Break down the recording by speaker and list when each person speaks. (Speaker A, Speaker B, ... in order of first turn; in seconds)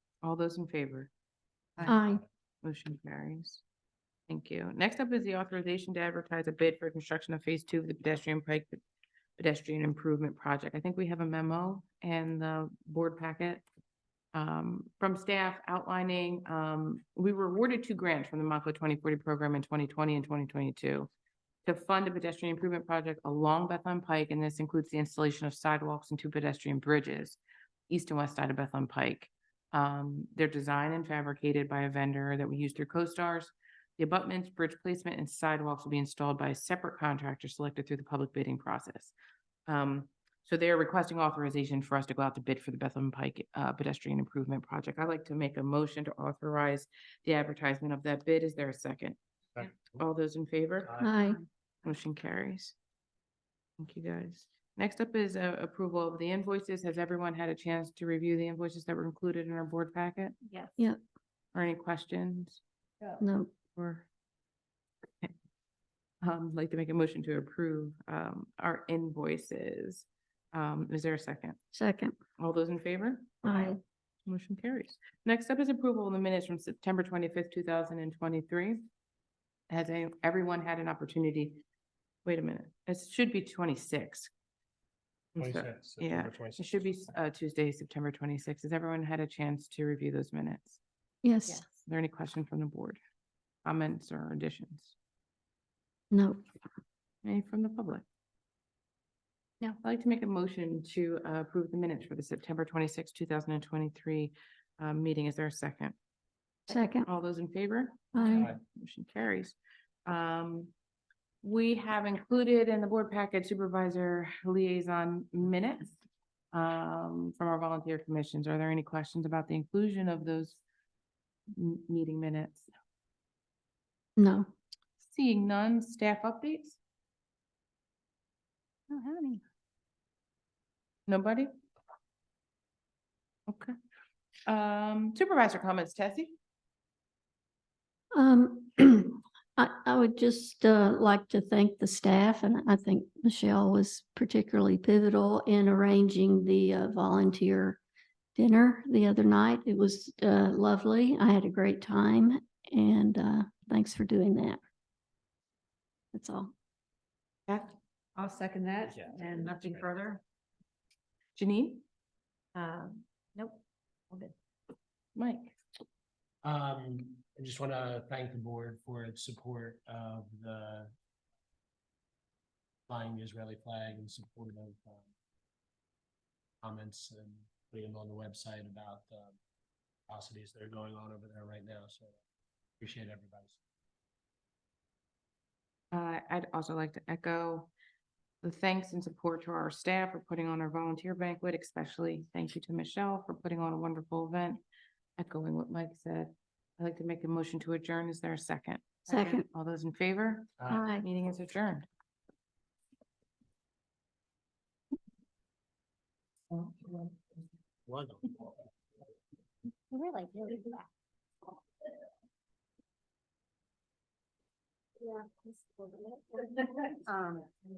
Speaker A: 0.2-1.1, 2.6-3.6, 4.3-8.8, 9.4-13.6, 14.3-21.1, 21.6-39.1, 39.7-51.0, 51.8-52.7, 53.8-60.4, 61.5-62.6, 63.7-64.0, 66.2-71.6, 72.4-73.7, 74.3-78.8, 79.7-81.6, 82.2-84.3, 85.3-90.8, 91.5-93.0, 93.6-94.9, 97.2-98.0, 99.8-105.9, 106.7-109.5, 110.0-110.7, 111.4-116.0, 116.5-120.6, 121.5-122.7, 125.0-126.8, 128.9-129.4, 131.1-131.5, 133.5-133.8, 134.4-136.3, 157.5-157.8, 161.3-161.8, 165.2-165.6, 185.9-187.7, 188.4-194.6, 195.2-201.8
Speaker B: 1.8-2.2, 51.0-51.4, 63.2-63.5, 71.7-72.1, 73.4-73.8, 91.2-91.6, 96.1-96.4, 106.7-107.0, 108.1-108.5, 124.2-124.5, 138.1-147.8, 148.3-154.6, 156.1-156.5, 199.1-199.4, 200.7-201.0
Speaker C: 49.5-50.0, 50.8-51.1, 85.4-86.7, 158.8-159.9, 166.4-170.9, 172.9-175.0, 176.6-179.3, 180.1-182.2, 182.8-183.6, 207.9-208.5
Speaker D: 60.5-60.8, 158.2-160.2, 162.5-163.6, 209.9-210.8, 215.0-217.5